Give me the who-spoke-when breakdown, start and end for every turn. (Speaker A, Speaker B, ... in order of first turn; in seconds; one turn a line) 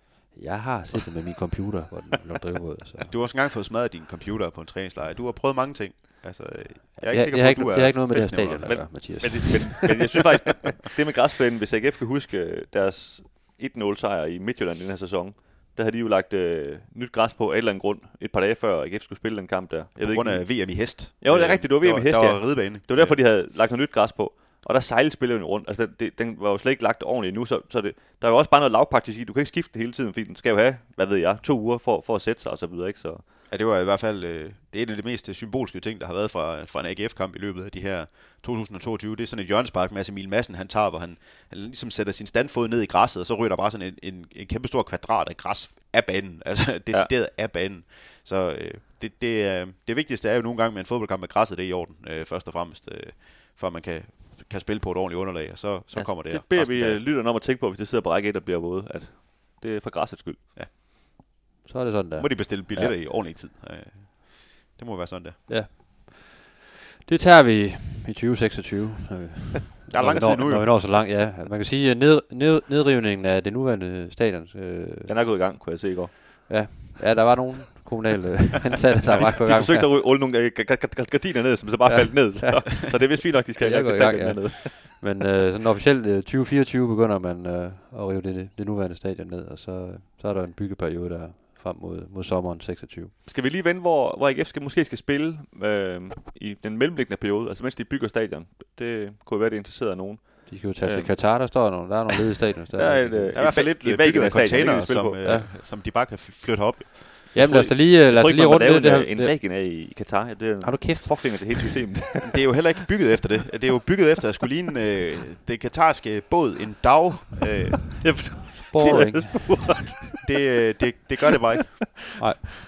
Speaker A: 0.3-3.1
Speaker B: 3.0-9.3
Speaker A: 7.0-9.8
Speaker C: 8.7-33.2
Speaker B: 20.0-23.2
Speaker B: 33.5-57.1
Speaker C: 55.9-60.4
Speaker A: 61.6-63.0
Speaker B: 62.2-65.4
Speaker A: 65.5-66.5
Speaker A: 67.0-75.1
Speaker B: 69.9-70.7
Speaker C: 75.1-76.8
Speaker A: 76.5-79.9
Speaker C: 79.1-85.1
Speaker A: 81.9-82.9
Speaker A: 83.6-93.1
Speaker C: 93.2-101.8
Speaker A: 100.5-103.4
Speaker C: 102.7-105.3
Speaker B: 103.3-107.3
Speaker A: 105.2-105.5
Speaker A: 107.3-109.4
Speaker C: 107.3-112.6
Speaker A: 110.6-111.7
Speaker B: 112.2-122.0
Speaker C: 117.9-120.2
Speaker A: 118.6-119.7
Speaker A: 122.2-122.4